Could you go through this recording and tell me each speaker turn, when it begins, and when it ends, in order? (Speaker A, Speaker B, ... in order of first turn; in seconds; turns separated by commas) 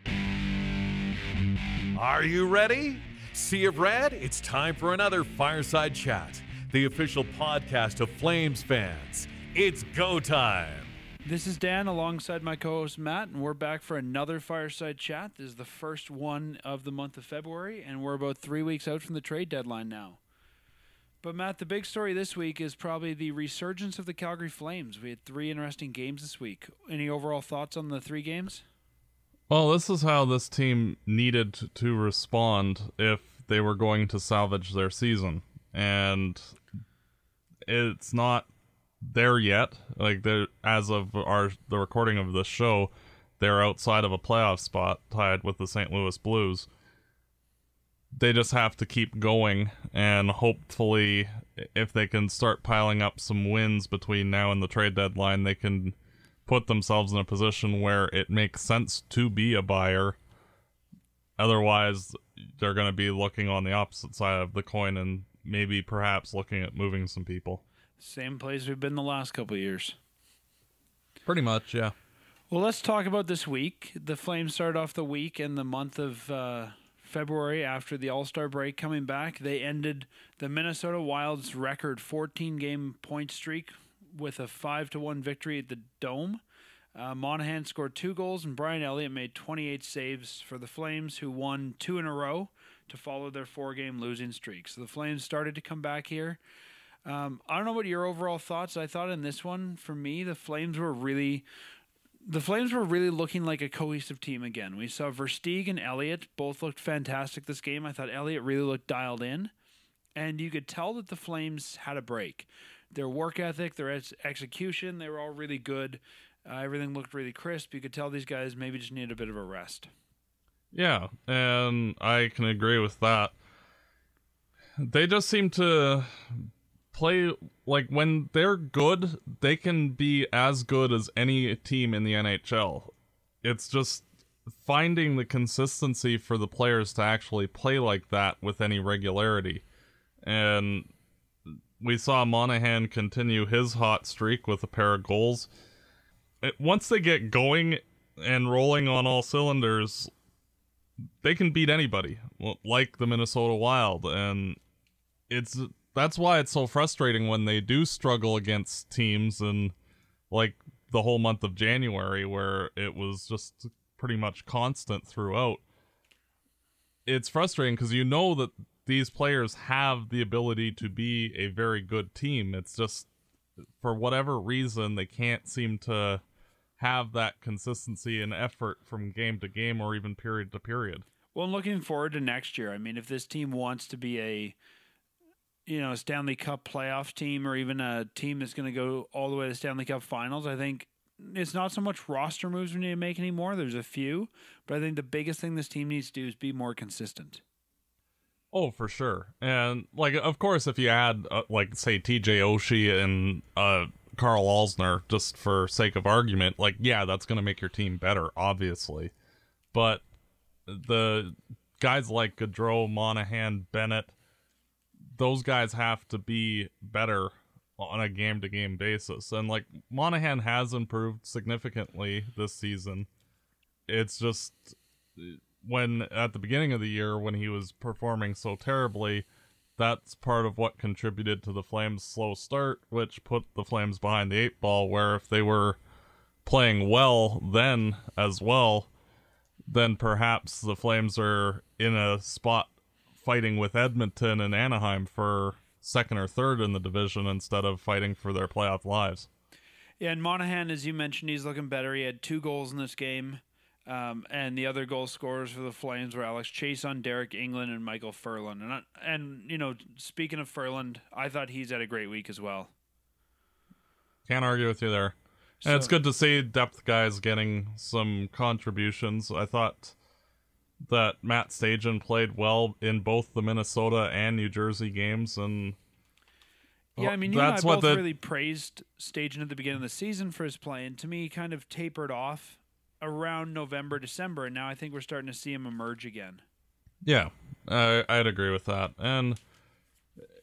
Speaker A: 1.9-10.9, Speaker B: 11.3-20.2, Speaker B: 21.2-28.6, Speaker C: 29.5-36.5, Speaker C: 37.7-38.5, Speaker C: 39.0-46.7, Speaker C: 48.1-60.2, Speaker C: 61.4-67.6, Speaker B: 68.0-70.0, Speaker C: 71.3-71.9, Speaker B: 72.5-86.4, Speaker B: 87.0-96.4, Speaker B: 97.1-101.5, Speaker B: 102.2-109.5, Speaker B: 110.2-119.9, Speaker C: 120.7-123.3, Speaker C: 124.8-132.9, Speaker C: 133.4-139.6, Speaker C: 140.2-140.9, Speaker C: 141.8-145.5, Speaker C: 146.4-150.1, Speaker C: 151.2-154.6, Speaker C: 155.3-159.7, Speaker C: 160.3-165.6, Speaker C: 167.1-173.1, Speaker C: 173.8-176.2, Speaker C: 176.8-181.1, Speaker B: 181.3-184.6, Speaker B: 185.7-197.4, Speaker C: 198.5-209.1, Speaker C: 209.7-210.0, Speaker C: 210.7-214.1, Speaker C: 215.1-223.1, Speaker C: 223.9-235.8, Speaker C: 236.4-238.9, Speaker C: 239.7-249.3, Speaker B: 250.0-262.7, Speaker C: 264.3-269.9, Speaker B: 265.6-265.9, Speaker C: 270.8-275.8, Speaker B: 277.0-286.4, Speaker C: 277.0-278.1, Speaker C: 287.0-289.4